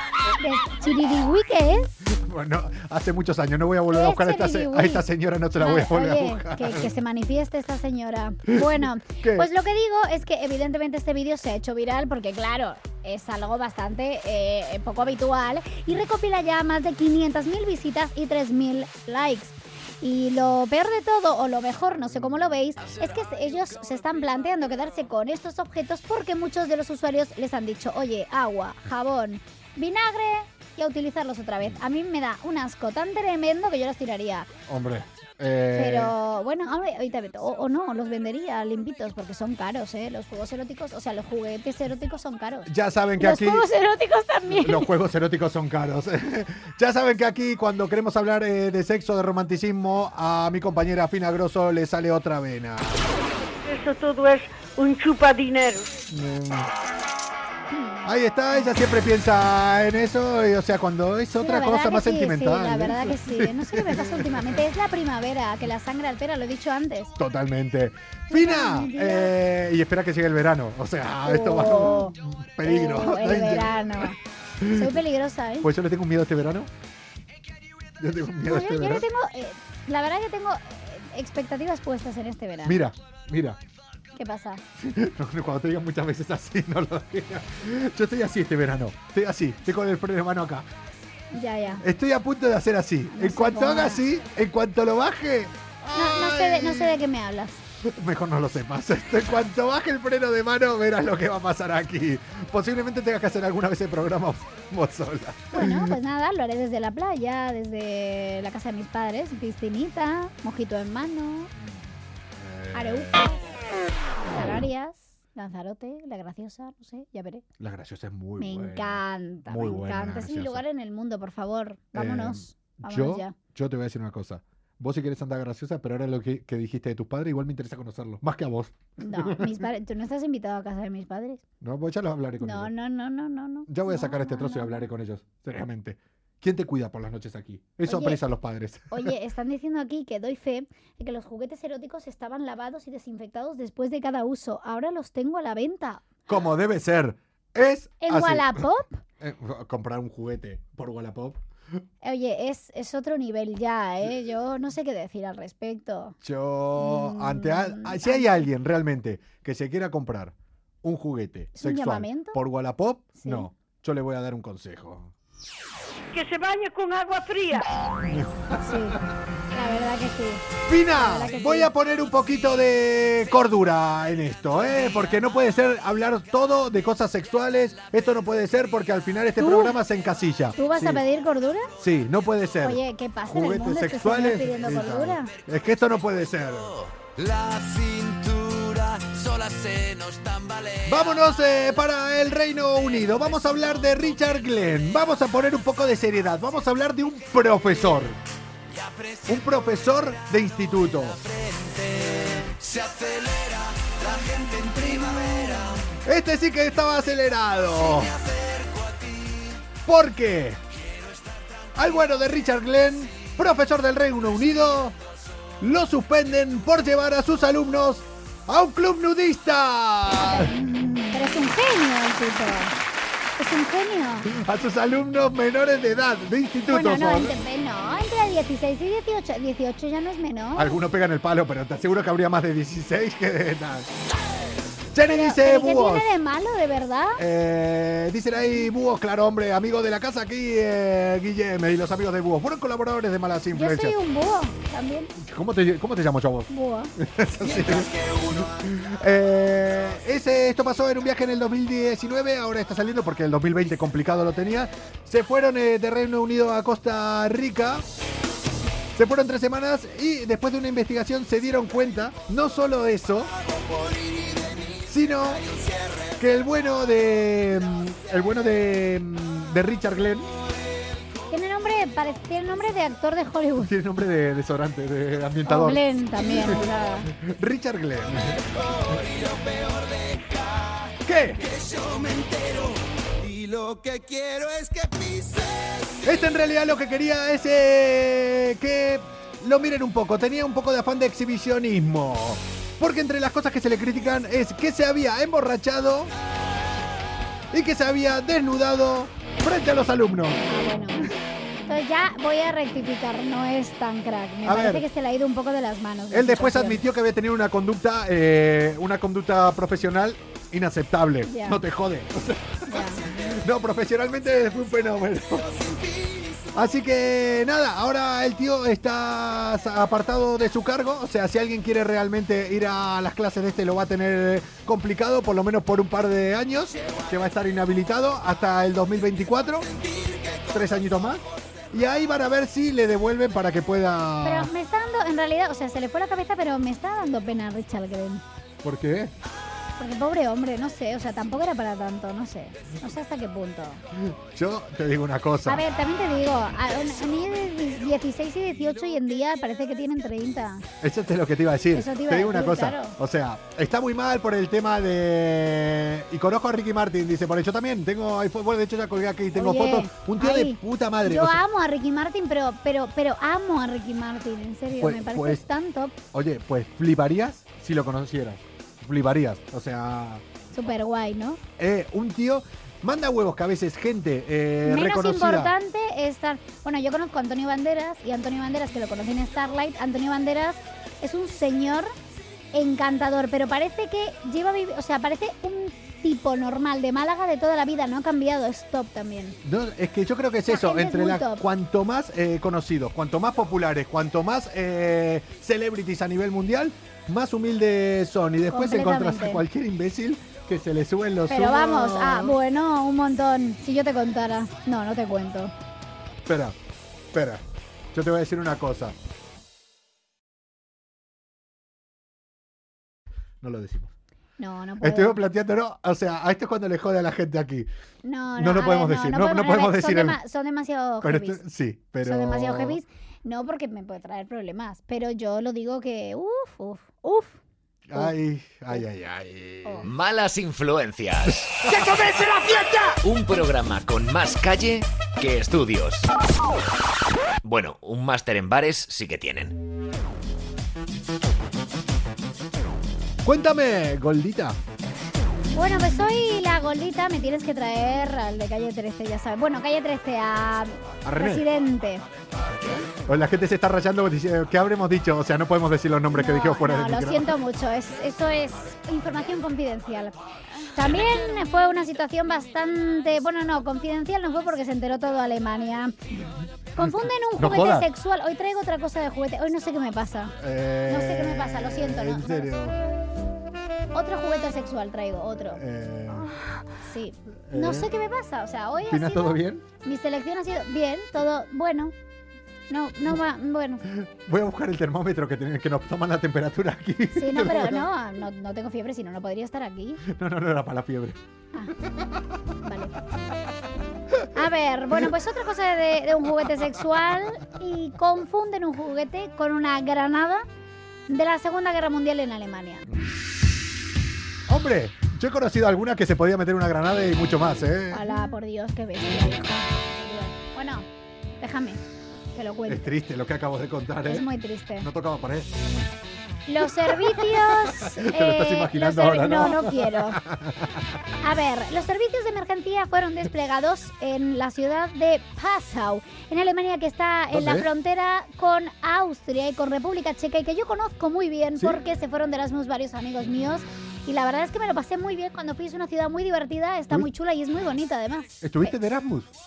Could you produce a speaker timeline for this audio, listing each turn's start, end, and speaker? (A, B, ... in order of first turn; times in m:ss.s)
0:00.4-0:01.9 A
0:02.0-0:06.9 B
0:03.9-0:34.5 A
0:08.5-0:09.5 B
0:34.7-0:36.1 B
0:35.7-0:44.9 A
0:42.6-0:43.7 B
0:44.5-0:53.2 B
0:53.6-0:55.9 C
0:56.1-0:56.7 B
0:57.7-0:58.0 A
0:58.0-1:04.6 B
1:01.4-1:07.1 A
1:07.2-1:14.0 B
1:08.3-1:09.3 A
1:11.2-1:15.7 A
1:14.6-1:14.9 B
1:15.6-1:16.7 B
1:18.0-1:19.0 B
1:18.4-1:22.8 A
1:22.6-1:23.6 B
1:24.2-1:24.6 A
1:24.8-1:30.7 B
1:31.3-1:31.8 A
1:31.8-1:37.0 B
1:33.1-1:34.0 A
1:35.9-1:37.6 A
1:37.8-1:46.0 B
1:45.5-1:51.5 A
1:51.6-1:53.5 B
1:52.7-1:53.3 A
1:54.3-1:57.4 A
1:54.3-1:54.6 B
1:57.6-2:00.6 B
1:58.4-2:03.4 A
2:01.9-2:09.6 B
2:09.0-2:11.4 A
2:11.6-2:12.7 B
2:12.4-2:14.8 A
2:13.7-2:19.1 B
2:17.8-2:18.2 A
2:18.9-2:26.0 A
2:26.3-2:28.6 B
2:28.0-2:29.0 A
2:29.2-2:31.4 B
2:32.0-2:36.2 A
2:36.2-2:45.1 B
2:36.8-2:38.4 A
2:41.6-2:42.4 A
2:43.2-2:43.5 A
2:46.1-2:47.6 C
2:48.0-2:49.0 B
2:48.6-2:49.0 A
2:49.5-2:51.7 A
2:50.6-3:01.0 B
2:59.4-2:59.8 A
3:00.6-3:01.7 A
3:01.8-3:06.7 B
3:02.6-3:05.3 A
3:07.2-3:10.8 D
3:10.8-3:18.2 B
3:19.2-3:21.2 B
3:21.7-3:25.4 D
3:26.0-3:28.1 B
3:29.8-3:30.6 B
3:31.8-3:35.0 B
3:35.6-3:41.0 B
3:40.2-3:42.7 A
3:43.4-3:44.3 A
3:44.2-3:47.3 B
3:46.7-3:50.8 A
3:50.6-3:53.9 B
3:54.9-3:56.1 B
3:55.1-3:57.2 A
3:57.2-4:03.9 B
4:03.5-4:05.1 A
4:05.2-4:17.8 B
4:06.5-4:06.9 A
4:18.9-4:23.3 B
4:24.8-4:25.5 B
4:26.2-4:30.3 B
4:31.3-4:33.7 A
4:33.6-4:38.6 B
4:35.4-4:37.1 A
4:39.4-4:40.2 D
4:41.0-4:41.5 B
4:41.6-4:42.7 D
4:43.2-4:45.3 D
4:46.0-4:56.1 B
4:57.5-5:00.5 B
5:00.5-5:01.1 A
5:01.7-5:06.8 A
5:04.4-5:04.8 B
5:06.1-5:15.6 B
5:11.2-5:11.6 A
5:12.7-5:13.0 A
5:16.5-5:29.7 B
5:30.5-5:34.5 B
5:34.2-5:38.2 A
5:38.6-5:39.1 B
5:39.8-5:43.8 A
5:44.0-5:45.6 B
5:45.4-5:50.6 A
5:50.8-6:01.4 B
5:51.7-5:53.0 A
5:59.4-6:06.0 A
6:04.8-6:05.4 B
6:06.1-6:10.2 B
6:10.5-6:11.4 A
6:11.6-6:15.5 B
6:14.6-6:21.9 A
6:22.5-6:29.4 A
6:29.4-6:42.4 B
6:30.5-6:31.4 A
6:38.5-6:39.4 A
6:41.3-6:45.5 A
6:46.2-6:46.6 B
6:47.1-6:49.0 B
6:53.4-6:53.9 B
6:54.4-6:55.2 A
6:54.8-6:57.7 B
6:58.0-7:01.4 A
6:58.4-7:00.2 B
7:01.0-7:02.8 B
7:02.0-7:07.4 A
7:07.9-7:09.9 B
7:09.8-7:11.5 E
7:11.6-7:12.1 B
7:13.0-7:16.1 E
7:17.4-7:19.6 E
7:23.2-7:24.6 B
7:25.5-7:32.0 A
7:31.0-7:31.5 B
7:32.9-7:37.3 B
7:36.1-7:40.2 A
7:40.7-7:46.0 A
7:46.8-7:50.3 A
7:46.8-7:47.9 B
7:50.4-7:52.8 B
7:50.9-7:52.5 A
7:53.9-7:55.6 A
7:55.5-7:56.3 B
7:56.8-8:01.9 A
7:57.5-7:57.9 B
7:58.8-7:59.6 B
8:02.7-8:03.8 A
8:03.9-8:07.8 B
8:07.1-8:10.0 A
8:10.0-8:11.2 B
8:11.8-8:12.2 B
8:12.6-8:12.9 A
8:14.3-8:20.4 A
8:21.1-8:22.9 A
8:24.5-8:28.1 B
8:27.9-8:30.8 A
8:31.4-8:31.8 A
8:32.3-8:32.9 A
8:32.7-8:35.6 B
8:34.1-8:34.9 A
8:36.5-8:40.2 A
8:36.6-8:40.8 B
8:41.2-8:58.7 A
8:47.3-8:47.7 B
8:58.4-8:59.3 B